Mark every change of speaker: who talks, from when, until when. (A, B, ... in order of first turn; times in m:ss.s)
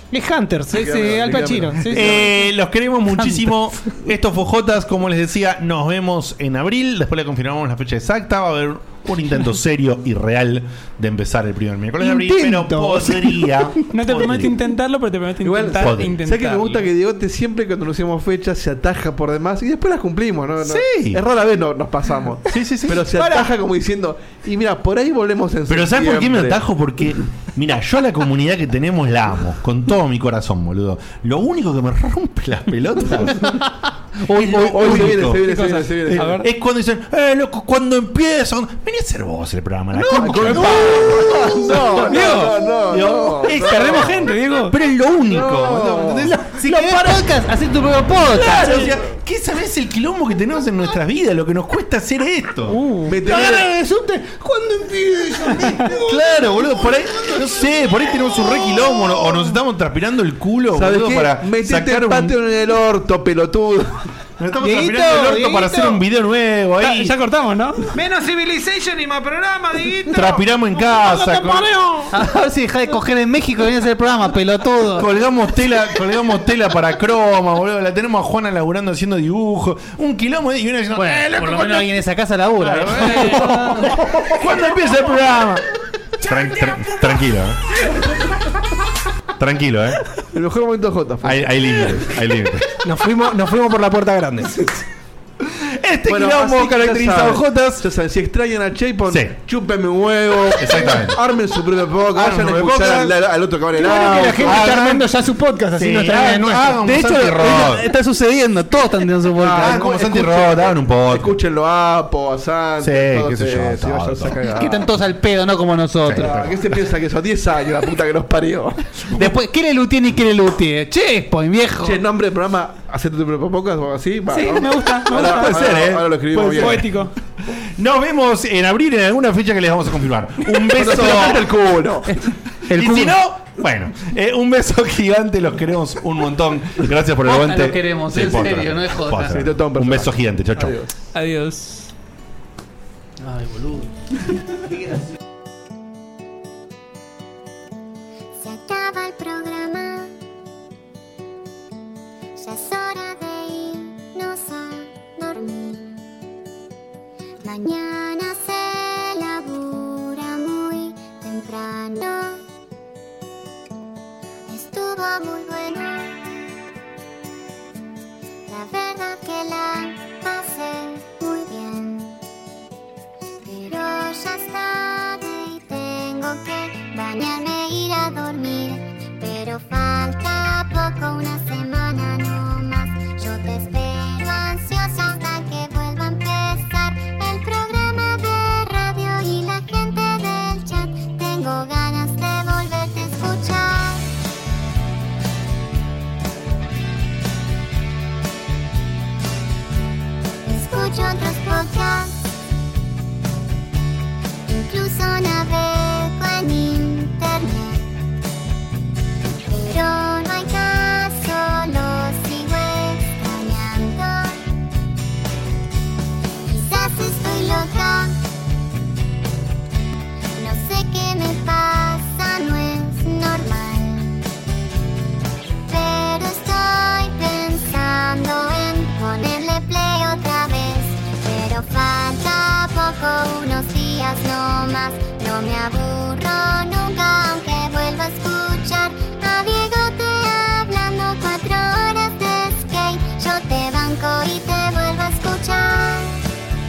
0:00.1-0:02.3 A
0:00.7-0:02.3 B
0:01.9-0:14.5 C
0:03.1-0:03.5 D
0:12.0-0:13.7 A
0:13.9-0:16.9 E
0:15.4-0:26.6 B
0:15.8-0:16.2 C
0:20.6-0:21.2 C
0:22.5-0:23.1 C
0:23.2-0:23.4 A
0:25.7-0:33.6 C
0:34.2-0:35.4 C
0:34.5-0:36.3 B
0:34.8-0:35.2 D
0:35.4-0:36.5 E
0:36.1-0:42.1 C
0:40.2-0:44.3 B
0:42.0-0:42.6 E
0:42.9-0:47.2 C
0:43.5-0:44.7 E
0:45.3-0:46.3 B
0:46.6-0:48.9 D
0:48.3-0:53.6 C
0:52.7-0:56.2 A
0:53.1-0:53.7 B
0:56.0-1:02.4 C
1:00.7-1:03.9 B
1:04.4-1:07.1 C
1:04.6-1:06.0 A
1:06.8-1:07.9 E
1:07.9-1:12.2 A
1:10.1-1:11.7 C
1:12.1-1:15.1 D
1:15.0-1:21.9 C
1:20.9-1:24.0 D
1:22.6-1:25.6 C
1:26.2-1:27.6 C
1:29.4-1:30.0 C
1:30.3-1:32.0 B
1:31.2-1:32.7 C
1:32.8-1:34.6 A
1:35.4-1:37.8 C
1:36.1-1:44.7 B
1:39.1-1:39.3 C
1:40.6-1:41.2 C
1:42.1-1:43.1 C
1:43.7-1:46.9 A
1:44.4-1:45.1 C
1:45.7-1:47.8 C
1:46.8-1:49.8 D
1:49.4-1:54.9 B
1:49.6-1:51.4 C
1:52.8-1:54.4 C
1:54.5-1:56.4 D
1:56.0-1:56.7 C
1:56.2-1:59.1 B
1:59.1-2:02.0 D
2:01.8-2:06.9 B
2:04.3-2:05.6 E
2:05.2-2:06.6 C
2:06.3-2:07.1 E
2:07.8-2:11.5 C
2:10.6-2:12.1 B
2:12.1-2:13.2 D
2:12.7-2:20.8 C
2:17.2-2:19.4 D
2:19.3-2:20.9 B
2:21.1-2:21.9 E
2:23.2-2:23.9 D
2:28.4-2:30.1 F
2:32.4-2:36.0 F
2:37.4-2:42.4 F
2:44.5-2:46.3 F
2:48.5-2:52.2 F
2:53.4-3:14.1 F
3:20.4-3:22.1 F
3:24.4-3:27.9 F
3:29.5-3:34.4 F
3:36.4-3:38.2 F
3:40.3-3:44.3 F
3:45.6-4:06.2 F